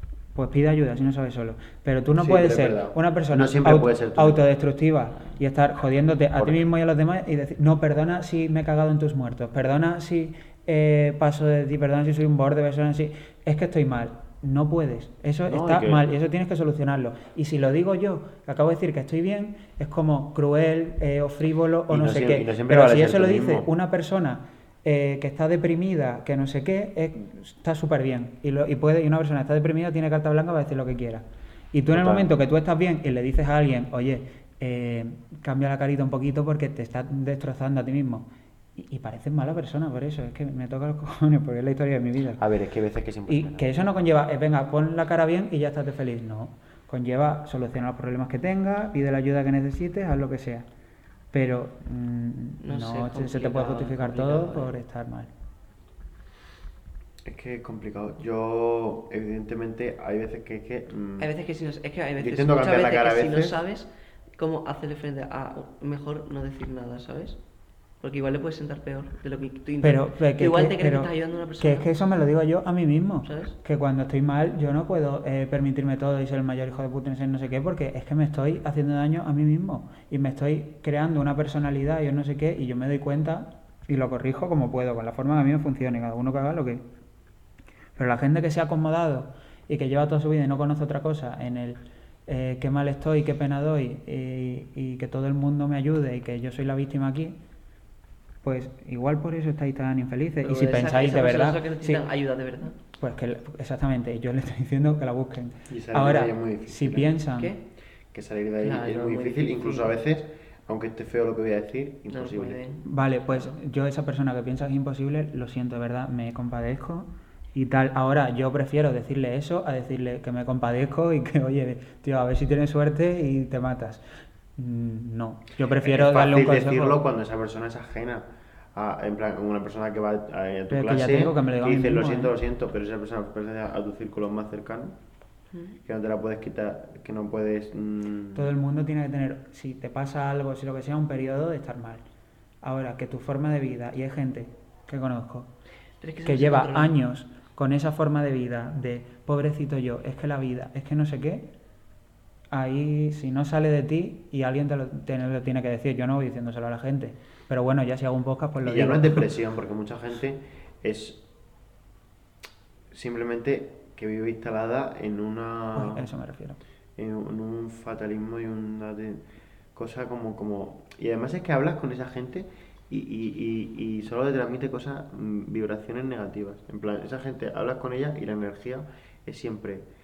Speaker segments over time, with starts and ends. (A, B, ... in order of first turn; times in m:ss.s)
0:00.3-0:42.4 A
0:02.2-0:04.4 B
0:06.4-0:06.6 B
0:15.5-0:16.0 B
0:21.9-0:23.7 B
0:31.9-0:32.3 B
0:42.4-0:43.8 B
0:43.3-0:50.6 A
0:51.3-0:55.3 A
0:52.6-0:54.8 C
0:57.2-1:01.3 B
1:01.2-1:03.9 C
1:02.2-1:03.6 B
1:04.4-1:07.4 C
1:08.0-1:11.9 C
1:09.8-1:26.8 A
1:13.2-1:13.5 C
1:28.0-1:37.4 A
1:38.4-1:42.0 A
1:40.4-1:42.8 C
1:43.0-1:47.5 A
1:45.7-1:47.1 B
1:47.4-1:47.6 C
1:48.1-1:52.6 B
1:48.6-1:49.9 C
1:52.1-1:52.8 C
1:52.8-2:04.0 A
2:04.6-2:07.0 A
2:05.8-2:15.0 B
2:10.7-2:12.3 A
2:15.8-2:18.5 B
2:18.3-2:22.0 A
2:22.6-2:25.5 A
2:26.0-2:26.9 C
2:26.2-2:31.5 A
2:32.5-2:39.3 A
2:38.6-2:41.2 B
2:42.9-2:46.1 B
2:45.7-2:46.6 A
2:47.0-2:49.2 B
2:49.7-2:59.8 B